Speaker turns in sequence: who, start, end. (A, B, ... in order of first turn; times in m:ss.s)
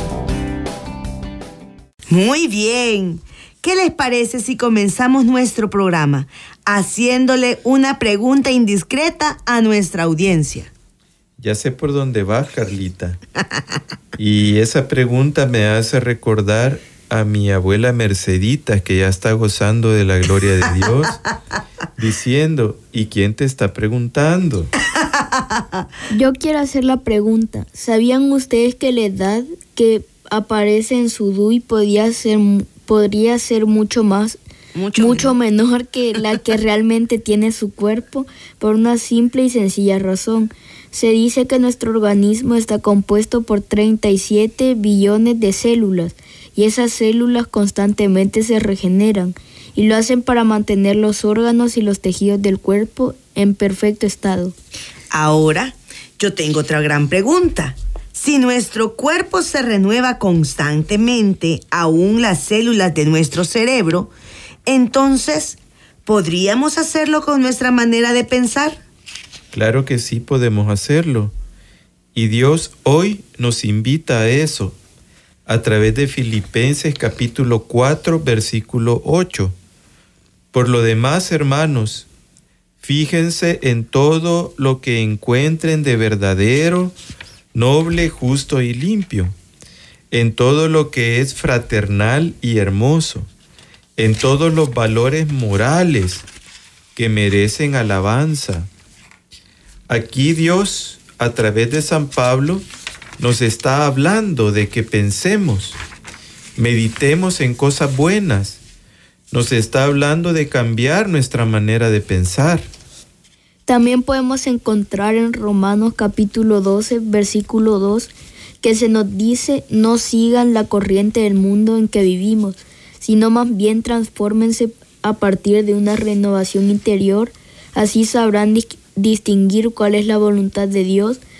0:02.1-0:10.7 A
0:11.4-0:13.2 B
0:14.2-0:21.2 B
0:22.0-0:24.7 B
0:25.0-0:25.7 A
0:26.1-0:34.4 C
0:34.7-0:35.3 A
0:35.0-0:54.5 C
0:55.1-1:04.1 A
1:04.7-1:08.8 A
1:09.5-1:11.3 B
1:12.1-1:14.8 B
1:15.4-1:19.6 B
1:20.5-1:22.1 B
1:22.8-1:27.0 B
1:27.5-1:29.4 B
1:30.1-1:33.3 B
1:34.0-1:36.2 B
1:37.0-1:38.7 B
1:39.9-1:42.6 B
1:43.2-1:45.8 B
1:46.6-1:48.6 B
1:49.3-1:52.7 B
1:53.7-2:11.2 C